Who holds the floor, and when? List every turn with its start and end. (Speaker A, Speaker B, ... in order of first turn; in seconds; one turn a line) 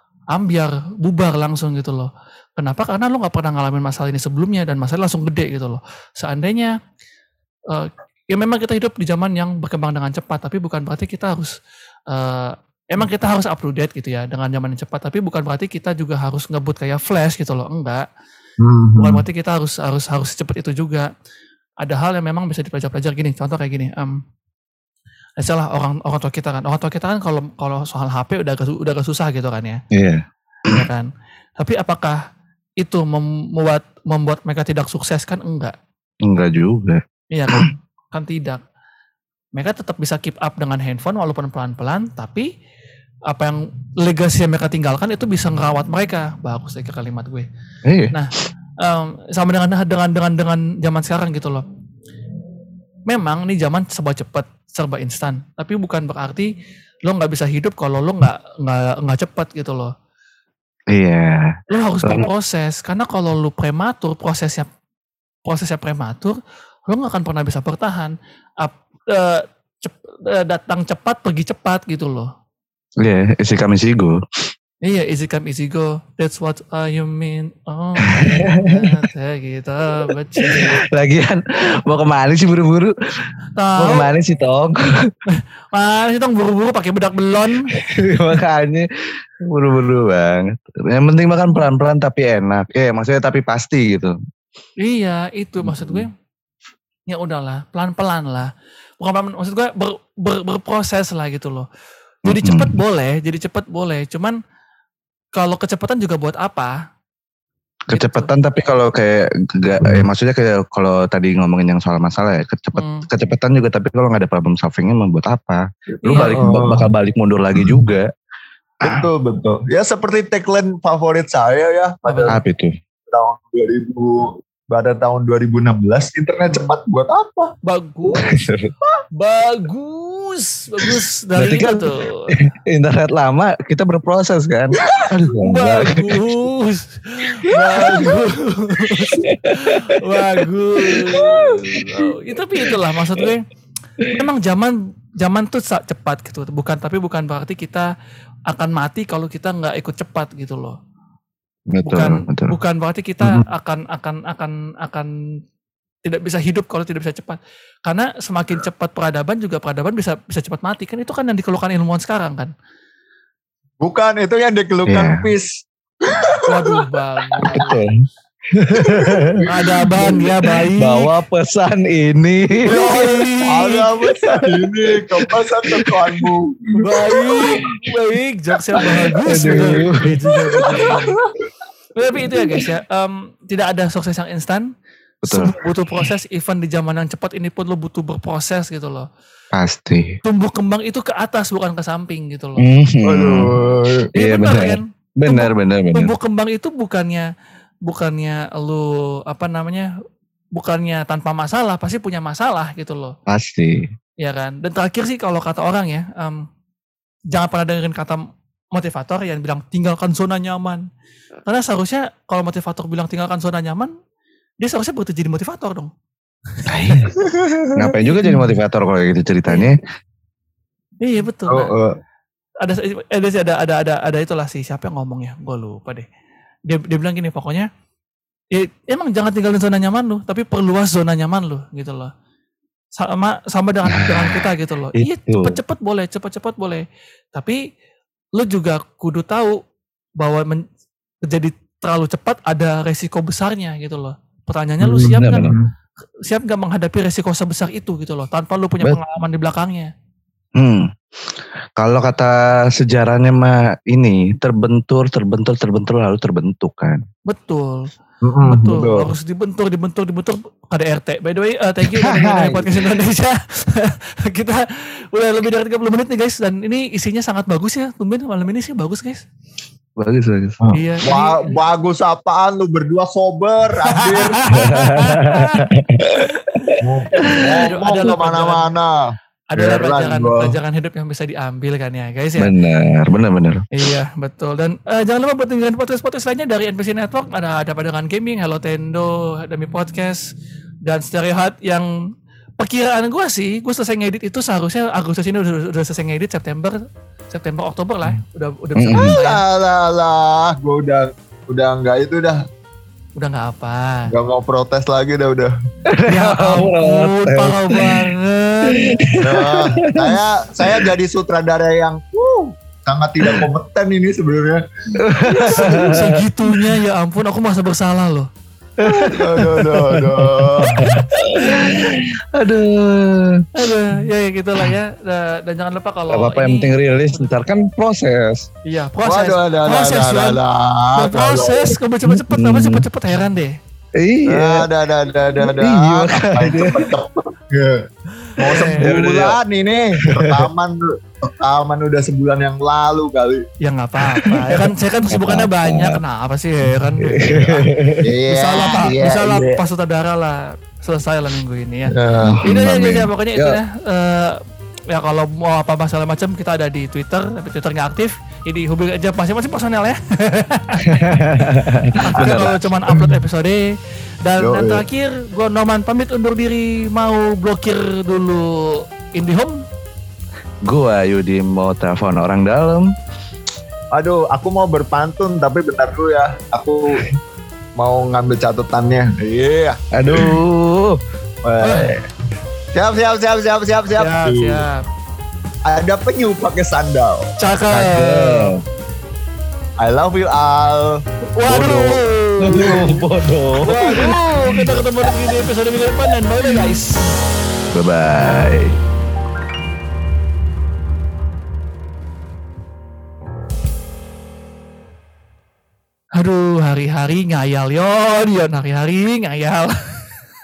Speaker A: 0.3-6.7
Speaker A: 7.7-11.5
Speaker A: 12.1-18.1
Speaker B: 18.6-19.2
Speaker A: 19.0-21.1
Speaker A: 21.8-24.2
Speaker A: 25.4-29.8
Speaker C: 29.9-30.8
Speaker A: 30.7-31.1
Speaker A: 31.6-32.2
Speaker A: 32.8-35.7
Speaker C: 36.2-37.7
Speaker A: 37.3-38.6
Speaker A: 39.5-42.5
Speaker A: 43.3-47.5
Speaker C: 47.8-48.1
Speaker A: 48.1-51.6
Speaker A: 53.1-56.5
Speaker A: 57.0-59.9
Speaker C: 60.9-62.3
Speaker A: 61.7-64.7
Speaker A: 65.5-72.3
Speaker C: 73.0-74.2
Speaker A: 74.8-80.8
Speaker C: 78.1-79.0
Speaker C: 80.4-82.9
Speaker A: 83.6-84.1
Speaker C: 83.8-85.1
Speaker A: 85.4-87.7
Speaker C: 87.8-88.9
Speaker C: 89.5-94.1
Speaker A: 94.8-96.1
Speaker C: 95.6-96.1
Speaker A: 97.1-98.5
Speaker A: 99.0-101.7
Speaker A: 102.3-104.4
Speaker C: 102.3-102.7
Speaker A: 105.4-106.7
Speaker A: 107.9-108.3
Speaker C: 107.9-118.1
Speaker B: 109.8-110.1
Speaker A: 112.7-113.0
Speaker A: 116.0-116.5
Speaker B: 116.3-116.9
Speaker C: 118.8-119.1
Speaker B: 118.8-122.4
Speaker A: 122.0-122.4
Speaker C: 122.3-122.7
Speaker B: 123.1-127.5
Speaker A: 127.7-128.4
Speaker C: 128.1-128.7
Speaker A: 129.2-132.3
Speaker C: 131.4-136.2
Speaker A: 135.4-143.4
Speaker B: 137.6-138.2
Speaker C: 137.8-138.1
Speaker C: 139.2-140.2
Speaker C: 141.1-142.0
Speaker C: 142.6-143.3
Speaker A: 144.1-147.9
Speaker A: 148.5-150.8
Speaker C: 151.7-152.6
Speaker A: 151.8-155.1
Speaker A: 156.1-162.5
Speaker B: 163.8-165.6
Speaker C: 164.9-165.3
Speaker B: 166.1-166.8
Speaker A: 166.5-167.8
Speaker C: 167.4-167.9
Speaker C: 168.5-172.9
Speaker B: 168.8-169.4
Speaker A: 169.4-171.1
Speaker A: 172.6-173.8
Speaker B: 172.7-177.5
Speaker C: 174.3-176.2
Speaker A: 176.8-181.2
Speaker C: 177.4-177.8
Speaker C: 179.2-180.7
Speaker B: 180.6-181.2
Speaker A: 181.9-184.7
Speaker A: 185.2-189.1
Speaker C: 185.2-185.5
Speaker C: 189.5-190.2
Speaker A: 190.2-192.6
Speaker C: 192.6-193.5
Speaker B: 193.0-194.1
Speaker C: 194.2-196.1
Speaker A: 194.2-197.3
Speaker A: 197.9-199.9
Speaker A: 200.6-203.1
Speaker C: 203.3-203.9
Speaker A: 204.2-206.4
Speaker A: 207.3-210.8
Speaker A: 211.4-213.9
Speaker A: 214.6-215.9
Speaker C: 216.7-217.1
Speaker B: 217.2-217.9
Speaker C: 217.8-219.8
Speaker A: 218.0-218.4
Speaker A: 221.0-221.7
Speaker B: 221.5-221.9
Speaker A: 222.6-226.1
Speaker A: 226.7-227.7
Speaker A: 228.5-232.1
Speaker A: 233.0-236.8
Speaker C: 233.9-235.6
Speaker A: 237.3-237.6
Speaker A: 238.4-239.6
Speaker A: 240.2-240.6
Speaker A: 241.2-245.5
Speaker C: 244.8-245.6
Speaker A: 246.3-249.9
Speaker C: 250.6-257.0
Speaker A: 257.3-257.9
Speaker B: 258.2-259.1
Speaker A: 258.4-269.2
Speaker C: 261.9-262.9
Speaker C: 270.0-270.6
Speaker B: 270.6-274.5
Speaker A: 270.7-271.5
Speaker A: 274.0-275.6
Speaker C: 274.5-276.3
Speaker A: 276.4-276.7
Speaker B: 276.8-279.0
Speaker A: 277.3-278.7
Speaker A: 279.5-282.5
Speaker B: 279.6-280.6
Speaker C: 282.4-283.6
Speaker A: 283.7-290.3
Speaker A: 290.9-291.9
Speaker A: 292.6-296.8
Speaker A: 297.3-299.4
Speaker C: 298.8-299.1
Speaker B: 298.9-302.4
Speaker A: 303.2-304.1
Speaker B: 304.1-305.5
Speaker C: 305.9-308.1
Speaker A: 306.1-308.9
Speaker C: 308.7-310.9
Speaker B: 309.2-314.6
Speaker C: 315.0-316.6
Speaker A: 315.3-318.3
Speaker B: 315.5-315.8
Speaker C: 318.8-323.4
Speaker B: 318.8-320.9
Speaker A: 321.4-321.7
Speaker A: 323.6-327.3
Speaker C: 326.1-328.5
Speaker A: 328.7-330.4
Speaker B: 329.1-331.8
Speaker A: 330.9-333.6
Speaker C: 332.1-332.9
Speaker C: 334.0-334.7
Speaker B: 334.3-337.8
Speaker C: 335.4-336.9
Speaker A: 338.4-338.9
Speaker B: 338.4-343.4
Speaker C: 338.8-339.4
Speaker C: 340.1-340.4
Speaker A: 343.6-347.6
Speaker C: 345.1-346.0
Speaker C: 347.0-348.0
Speaker B: 348.0-349.6
Speaker A: 348.3-351.9
Speaker B: 351.9-352.4
Speaker C: 352.2-353.6
Speaker A: 352.4-360.8
Speaker C: 360.9-362.6
Speaker A: 362.0-363.7
Speaker B: 362.2-363.1
Speaker A: 364.2-369.6
Speaker B: 364.4-364.9
Speaker C: 370.6-372.9
Speaker B: 373.9-377.0
Speaker B: 377.8-380.4
Speaker C: 379.9-381.0
Speaker B: 381.4-382.0
Speaker A: 381.6-381.9
Speaker B: 382.7-384.6
Speaker A: 384.0-384.8
Speaker B: 385.6-387.3
Speaker A: 387.4-388.5
Speaker C: 387.7-388.6
Speaker B: 389.8-391.0
Speaker A: 391.4-392.8
Speaker C: 391.5-394.7
Speaker B: 392.5-393.0
Speaker A: 393.6-397.0
Speaker C: 397.7-398.7
Speaker A: 406.2-410.0